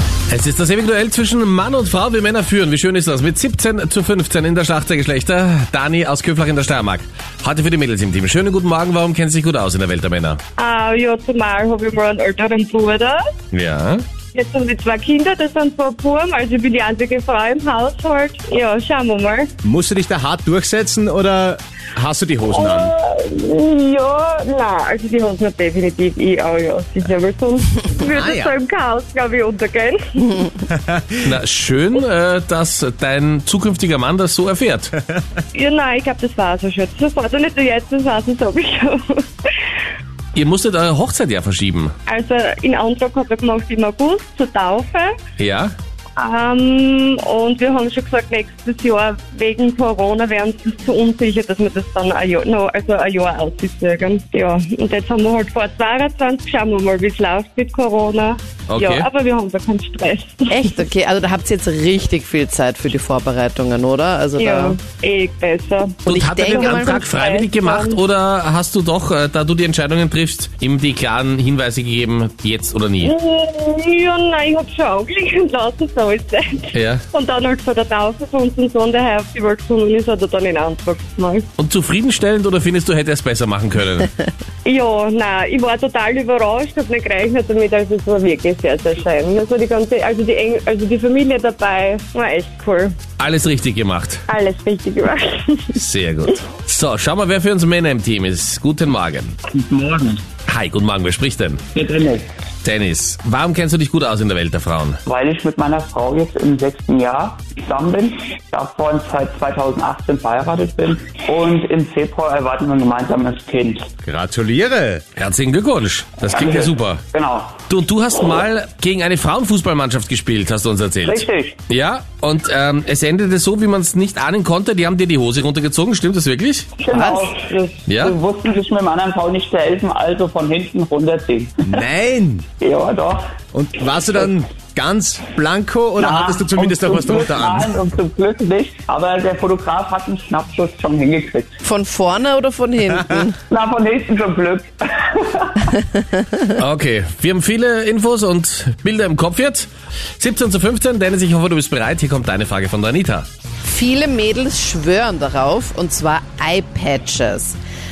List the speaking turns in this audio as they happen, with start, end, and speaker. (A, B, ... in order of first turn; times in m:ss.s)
0:00.3-0:10.4 A
0:10.6-0:13.3 B
0:13.5-0:14.0 A
0:14.3-0:19.5 B
0:19.6-0:22.9 C
0:22.5-0:30.5 B
0:28.0-0:28.6 C
0:30.7-0:31.2 C
0:31.2-0:34.9 A
0:35.5-0:39.5 B
0:40.3-0:41.9 A
0:42.0-0:45.1 B
0:45.4-0:45.7 A
0:46.2-1:00.6 B
0:58.7-0:59.1 A
1:00.5-1:04.8 D
1:04.4-1:08.0 B
1:06.0-1:07.1 D
1:06.0-1:13.1 A
1:13.0-1:21.5 B
1:16.7-1:17.0 A
1:21.6-1:24.1 A
1:24.6-1:33.0 B
1:33.2-1:34.2 A
1:34.3-1:35.8 B
1:35.7-1:39.4 A
1:39.5-1:40.2 E
1:40.5-1:41.6 A
1:41.7-1:42.3 E
1:42.6-1:45.0 A
1:45.0-1:53.9 E
1:54.0-1:55.0 C
1:55.2-1:57.0 A
1:56.3-1:57.6 E
1:57.7-2:06.7 A
2:01.0-2:01.6 E
2:06.8-2:11.8 E
2:06.9-2:07.3 D
2:07.9-2:08.2 A
2:11.6-2:12.4 C
2:12.6-2:13.2 E
2:13.5-2:17.6 C
2:16.0-2:21.6 E
2:21.6-2:23.4 D
2:23.5-2:25.6 E
2:25.8-2:26.5 D
2:26.6-2:29.7 A
2:30.2-2:33.2 A
2:33.6-2:37.6 D